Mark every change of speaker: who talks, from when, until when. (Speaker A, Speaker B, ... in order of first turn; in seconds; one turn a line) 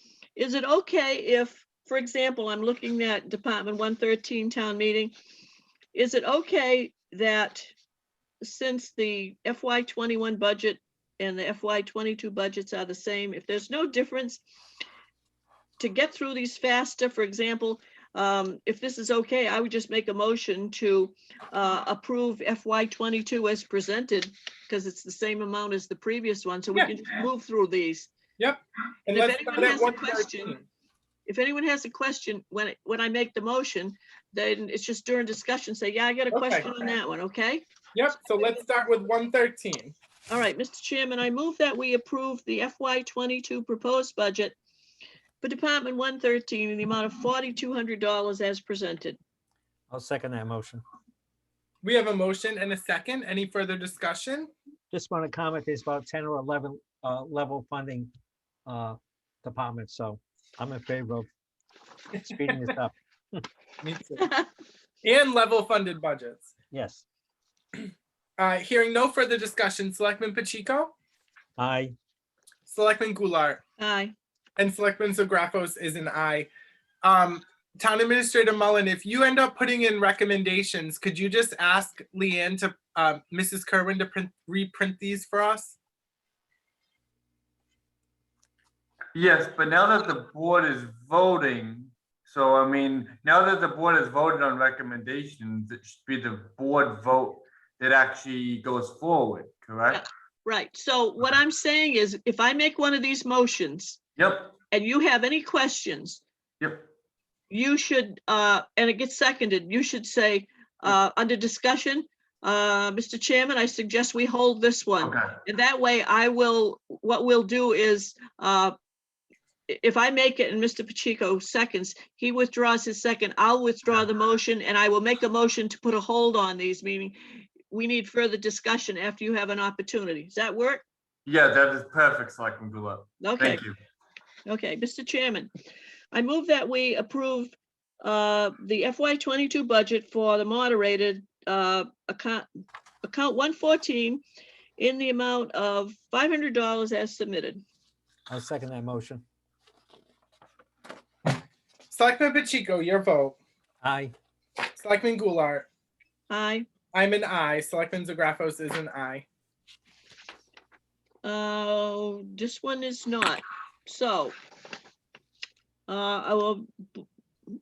Speaker A: 0.3-5.1
Speaker A: 5.9-7.7
Speaker A: 8.4-14.4
Speaker A: 15.8-28.1
Speaker B: 28.4-30.6
Speaker A: 29.1-30.6
Speaker A: 31.2-37.6
Speaker B: 36.3-36.7
Speaker B: 37.9-39.9
Speaker A: 40.3-44.5
Speaker A: 45.4-49.2
Speaker C: 49.9-50.8
Speaker B: 51.8-54.5
Speaker C: 54.9-58.1
Speaker C: 58.6-61.3
Speaker C: 62.2-63.4
Speaker B: 63.8-64.2
Speaker A: 64.2-64.5
Speaker B: 65.0-66.5
Speaker C: 66.7-67.0
Speaker B: 68.4-70.9
Speaker C: 71.6-71.9
Speaker B: 72.7-73.6
Speaker A: 73.8-74.1
Speaker B: 74.6-76.5
Speaker B: 77.0-85.8
Speaker D: 89.1-100.0
Speaker A: 99.9-104.0
Speaker D: 104.2-104.5
Speaker A: 104.7-106.2
Speaker D: 106.6-106.9
Speaker A: 107.5-118.7
Speaker D: 115.0-115.3
Speaker A: 119.7-127.2
Speaker A: 127.7-130.8
Speaker D: 131.2-133.7
Speaker A: 133.2-133.7
Speaker A: 134.4-135.5
Speaker A: 136.1-142.5
Speaker A: 143.0-144.2
Speaker A: 144.8-147.6
Speaker C: 148.3-149.2
Speaker B: 151.9-153.4
Speaker C: 153.8-154.1
Speaker B: 154.7-155.7
Speaker A: 156.3-156.7
Speaker B: 156.9-159.2
Speaker A: 161.2-164.3
Speaker A: 165.9-167.0